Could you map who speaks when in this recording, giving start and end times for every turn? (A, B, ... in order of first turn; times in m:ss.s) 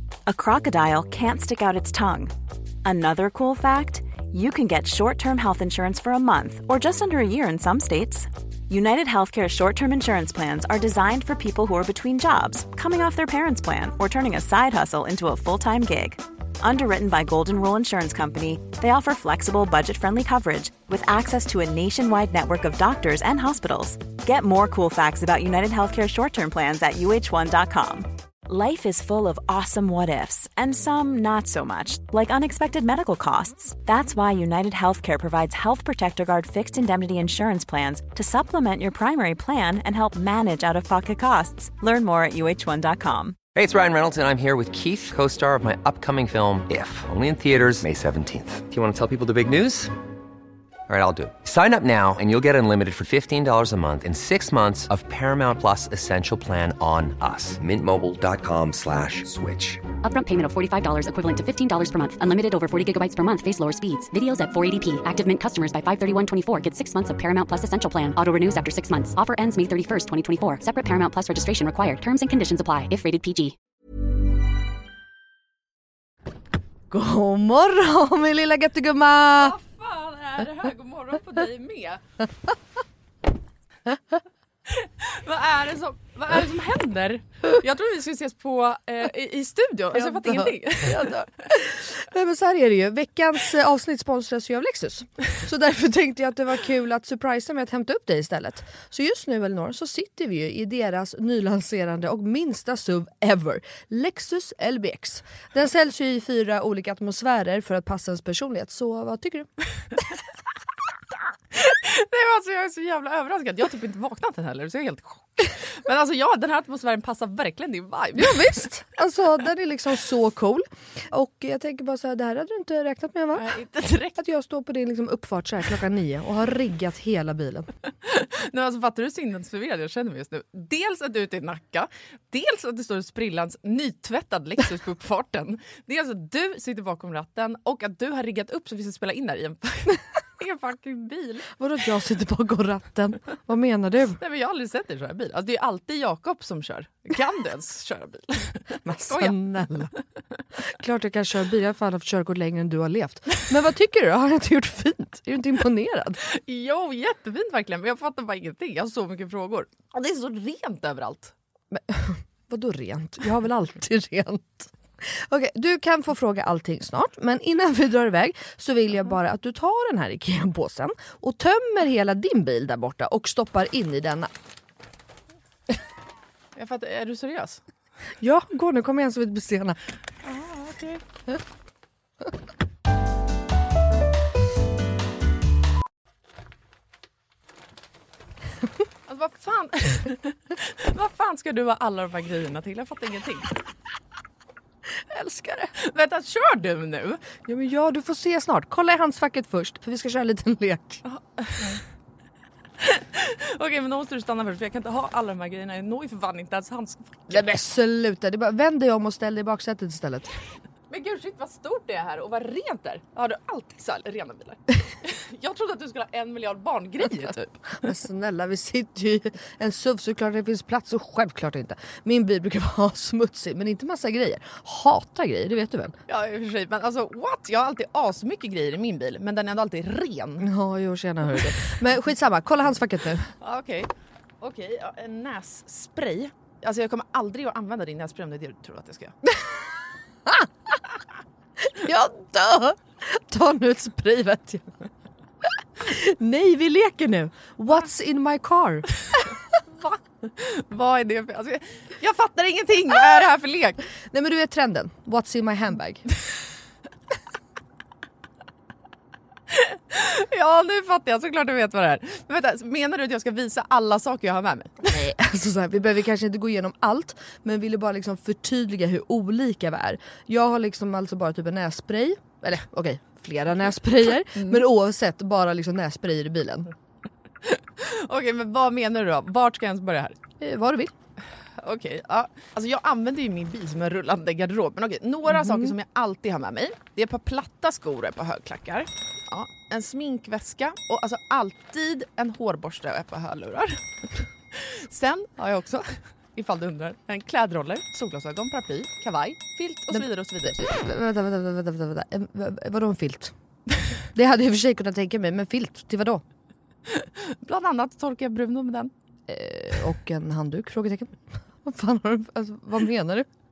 0:00.3-0:02.3 A
0:02.8-0:43.4 A
0:43.6-0:49.9 B
0:50.9-0:59.9 B
1:00.0-1:13.6 C
1:16.9-1:19.6 D
1:19.4-1:22.0 E
1:24.7-1:31.5 E
1:29.9-1:49.5 D
1:51.5-1:58.6 E
1:58.2-2:03.5 D
2:03.4-2:04.2 E
2:04.2-2:07.7 D
2:08.0-2:21.5 E
2:21.6-2:24.2 D
2:24.2-2:29.8 E
2:28.8-2:29.9 D
2:30.6-2:36.2 D
2:36.2-2:41.3 E
2:41.7-2:54.3 D
2:56.6-2:57.6 E
2:58.2-2:59.8 D
3:00.2-3:01.0 E
3:09.1-3:13.5 E
3:15.1-3:15.7 D
3:15.8-3:17.3 E
3:17.5-3:21.0 D
3:21.0-3:21.8 E
3:22.8-3:27.4 E
3:27.3-3:30.4 D
3:30.9-3:37.7 E
3:37.8-3:46.0 D
3:46.1-3:50.5 E
3:50.4-3:53.3 D
3:53.4-3:59.2 E
4:00.3-4:00.7 D
4:01.6-4:04.7 D
4:05.8-4:09.4 D
4:09.7-4:13.8 E
4:14.1-4:16.0 D
4:19.5-4:24.7 E
4:24.8-4:36.7 D
4:34.4-4:34.6 E
4:37.4-4:40.2 E
4:40.4-4:40.9 D
4:41.6-5:00.6 E
4:45.4-4:45.7 D
4:59.9-5:03.4 D
5:04.1-5:06.2 D
5:06.9-5:08.9 E
5:09.3-5:13.3 D